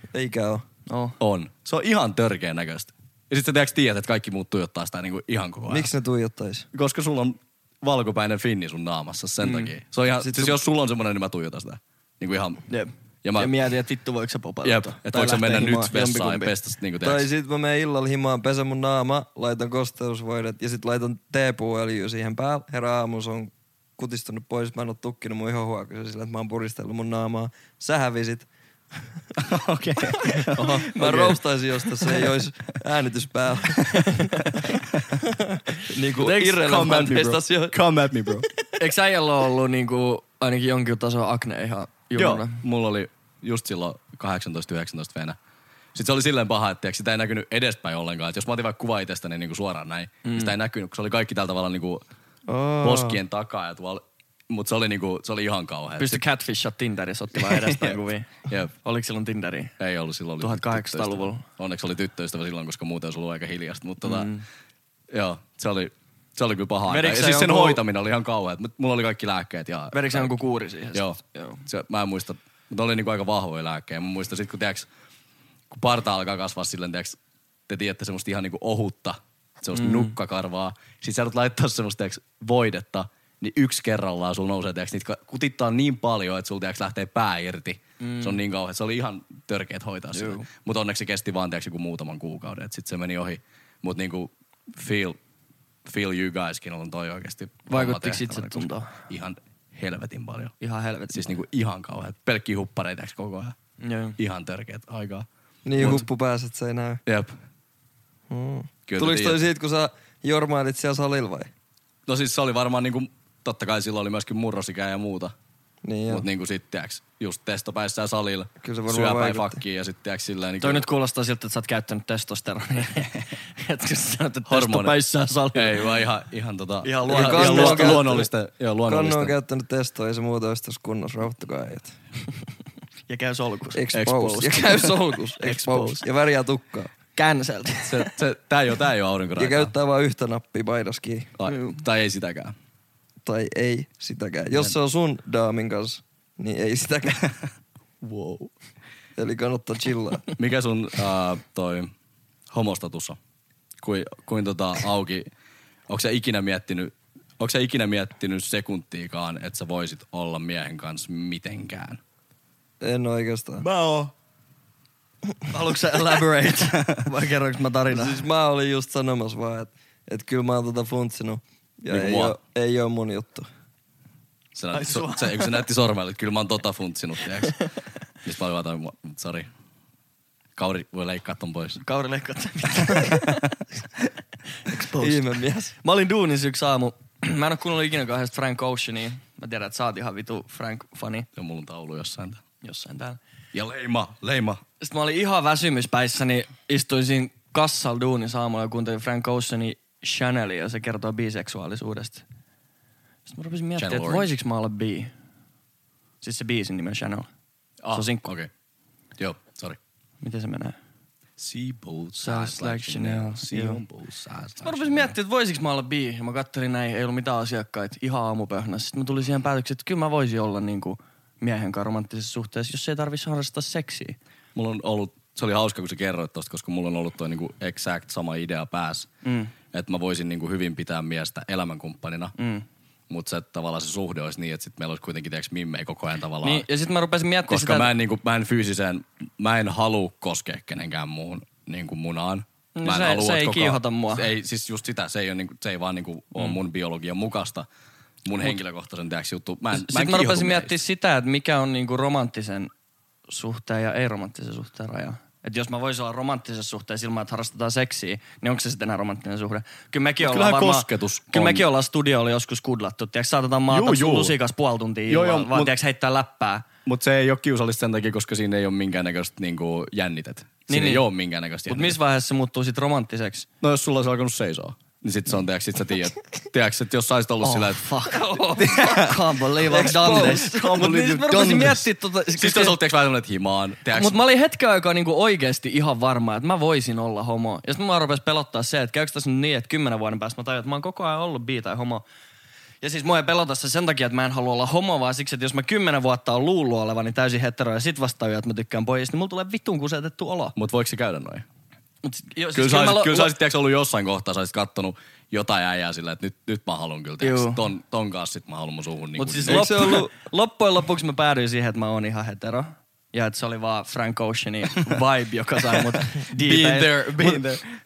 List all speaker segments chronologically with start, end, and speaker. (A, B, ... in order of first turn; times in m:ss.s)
0:00.1-0:00.6 A
0:00.9-0:01.2 B
0:01.2-0:05.9 C
0:05.7-0:06.7 A
0:06.7-0:12.6 C
0:09.4-0:09.7 B
0:10.2-0:10.6 A
0:12.7-0:16.5 B
0:13.2-0:13.5 C
0:14.6-0:17.3 C
0:17.0-0:28.5 A
0:29.4-0:30.9 C
0:30.3-0:31.4 B
0:30.8-0:34.5 A
0:32.0-0:32.3 B
0:35.2-0:37.8 A
0:36.3-0:38.5 C
0:38.8-0:42.6 B
0:42.2-0:45.4 C
0:45.9-0:52.0 C
0:50.2-0:50.5 B
0:52.5-0:53.2 A
0:52.8-0:56.2 C
0:56.0-0:59.7 B
0:57.4-0:58.7 C
0:59.8-1:04.3 C
1:00.4-1:01.4 B
1:04.0-1:04.4 B
1:05.1-1:10.3 C
1:06.9-1:07.8 B
1:09.9-1:11.6 B
1:10.9-1:14.9 C
1:15.7-1:35.2 C
1:19.7-1:20.1 B
1:28.0-1:28.4 B
1:30.1-1:30.4 B
1:35.8-1:40.5 C
1:37.7-1:38.9 B
1:40.6-1:41.3 B
1:41.1-1:43.6 C
1:43.8-1:44.2 B
1:44.2-1:45.3 C
1:45.6-1:47.0 A
1:45.8-1:46.1 C
1:47.1-1:47.4 C
1:48.3-1:51.5 A
1:48.9-1:49.4 C
1:52.1-1:55.4 C
1:55.8-1:56.3 A
1:56.1-2:00.9 C
1:58.6-1:59.6 A
2:00.6-2:06.0 B
2:04.5-2:05.0 C
2:05.5-2:09.4 C
2:06.8-2:08.2 B
2:07.1-2:08.3 A
2:08.9-2:12.0 A
2:13.1-2:13.9 B
2:13.7-2:16.9 A
2:13.9-2:14.9 C
2:15.4-2:16.0 B
2:17.2-2:18.2 B
2:17.8-2:19.7 C
2:19.4-2:21.3 A
2:21.4-2:22.6 C
2:21.5-2:21.8 B
2:23.2-2:27.3 A
2:28.0-2:28.5 C
2:29.2-2:30.3 A
2:30.4-2:31.9 C
2:32.5-2:33.2 C
2:33.8-2:35.3 C
2:35.9-2:42.0 C
2:42.8-2:43.7 A
2:43.7-2:44.0 B
2:45.5-2:48.3 B
2:46.7-2:47.0 C
2:47.9-2:53.5 A
2:51.9-2:52.4 C
2:54.6-2:57.6 C
2:54.7-2:55.6 B
2:58.2-2:59.5 C
3:00.6-3:01.8 C
3:01.8-3:03.6 B
3:04.6-3:11.3 B
3:05.0-3:05.7 A
3:11.4-3:12.4 C
3:12.6-3:13.2 B
3:13.5-3:14.6 C
3:14.8-3:22.2 B
3:23.3-3:25.1 B
3:23.8-3:24.3 C
3:26.2-3:27.3 B
3:27.8-3:28.5 C
3:27.9-3:28.2 B
3:29.2-3:29.8 C
3:30.2-3:30.8 B
3:31.4-3:35.2 C
3:32.2-3:33.8 B
3:34.6-3:44.2 B
3:44.6-3:49.1 C
3:49.2-3:49.6 B
3:49.7-3:52.4 C
3:52.4-3:52.7 B
3:53.1-3:56.7 C
3:56.4-3:57.9 B
3:57.5-4:07.7 C
4:02.8-4:04.3 B
4:08.2-4:10.8 C
4:09.7-4:12.7 B
4:13.3-4:26.7 B
4:20.2-4:21.7 C
4:23.7-4:24.4 C
4:25.1-4:25.7 C
4:26.8-4:32.0 C
4:30.7-4:31.1 B
4:31.7-4:33.5 B
4:33.6-4:37.9 C
4:37.4-4:42.8 B
4:38.1-4:39.0 A
4:38.6-4:44.2 C
4:39.6-4:40.8 A
4:43.9-4:52.0 B
4:52.8-5:00.6 B
5:00.6-5:01.4 C
5:02.0-5:03.3 B
5:02.5-5:10.0 C
5:07.2-5:07.7 B
5:09.2-5:17.4 B
5:09.5-5:10.1 A
5:15.7-5:17.7 C